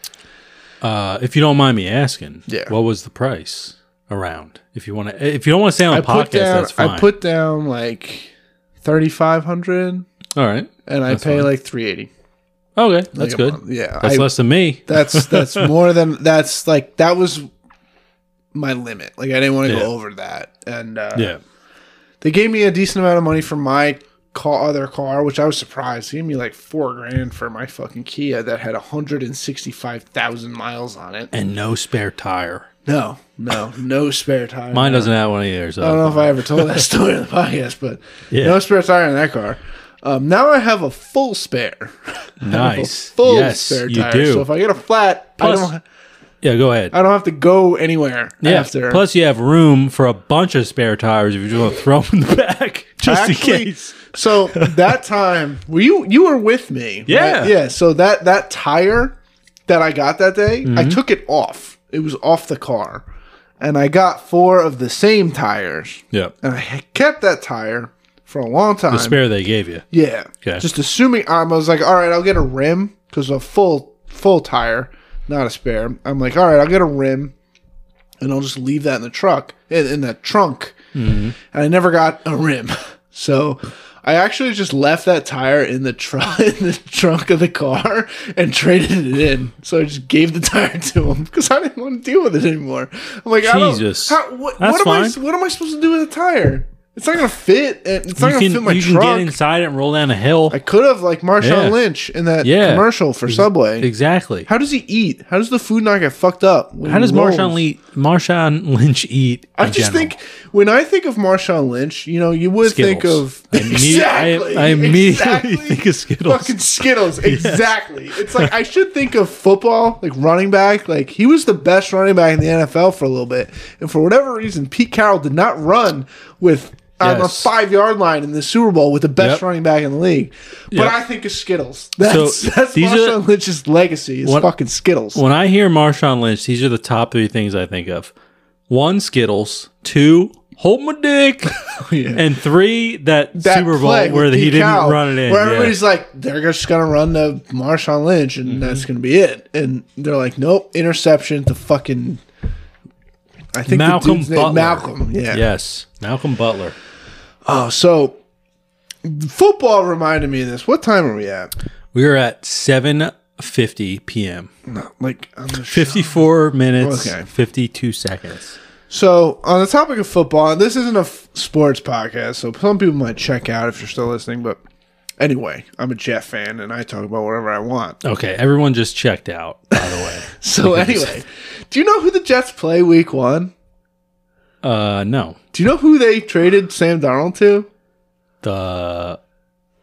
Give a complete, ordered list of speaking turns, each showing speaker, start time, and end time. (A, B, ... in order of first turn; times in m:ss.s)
0:00.8-0:07.1 A
0:02.5-0:02.8 B
0:05.9-0:10.1 B
0:10.4-0:11.5 A
0:10.9-0:12.1 B
0:12.8-0:15.7 A
0:13.1-0:14.3 B
0:14.9-0:17.5 B
0:18.5-0:21.3 B
0:19.7-0:19.9 A
0:21.2-0:21.4 A
0:22.2-0:31.3 B
0:31.3-0:32.7 A
0:32.8-0:35.1 B
0:34.7-0:36.8 A
0:35.8-0:45.8 B
0:38.3-0:38.6 A
0:42.4-0:44.5 A
0:45.4-0:45.7 A
0:46.4-0:46.9 A
0:46.9-0:49.0 B
0:48.4-0:54.9 A
0:53.0-0:59.2 B
0:57.1-0:57.6 A
0:59.7-1:03.1 B
1:00.6-1:01.0 A
1:03.6-1:09.2 B
1:08.9-1:09.8 A
1:09.9-1:17.3 B
1:18.2-1:20.8 B
1:21.0-1:21.4 A
1:21.4-1:39.4 B
1:33.4-1:35.2 A
1:38.2-1:40.6 A
1:40.5-1:43.9 B
1:41.4-1:41.8 A
1:42.4-1:44.5 A
1:44.5-1:47.6 B
1:46.9-1:50.1 A
1:49.6-2:15.2 B
1:52.6-1:56.6 A
1:57.1-1:58.5 A
2:07.0-2:07.5 A
2:12.0-2:13.2 A
2:15.1-2:18.1 A
2:18.7-2:21.6 A
2:21.7-2:22.3 B
2:22.1-2:25.8 A
2:23.4-2:32.2 B
2:28.5-2:28.8 A
2:33.5-2:35.4 B
2:33.7-2:36.8 A
2:37.4-2:38.2 B
2:39.0-2:41.5 B
2:41.9-2:44.5 A
2:44.7-2:46.2 B
2:45.7-2:48.6 A
2:46.8-2:47.3 B
2:48.9-2:54.6 B
2:55.2-2:58.0 B
2:58.0-3:01.2 A
2:59.8-3:03.5 B
3:04.6-3:05.4 A
3:05.5-3:07.7 B
3:08.4-3:09.2 A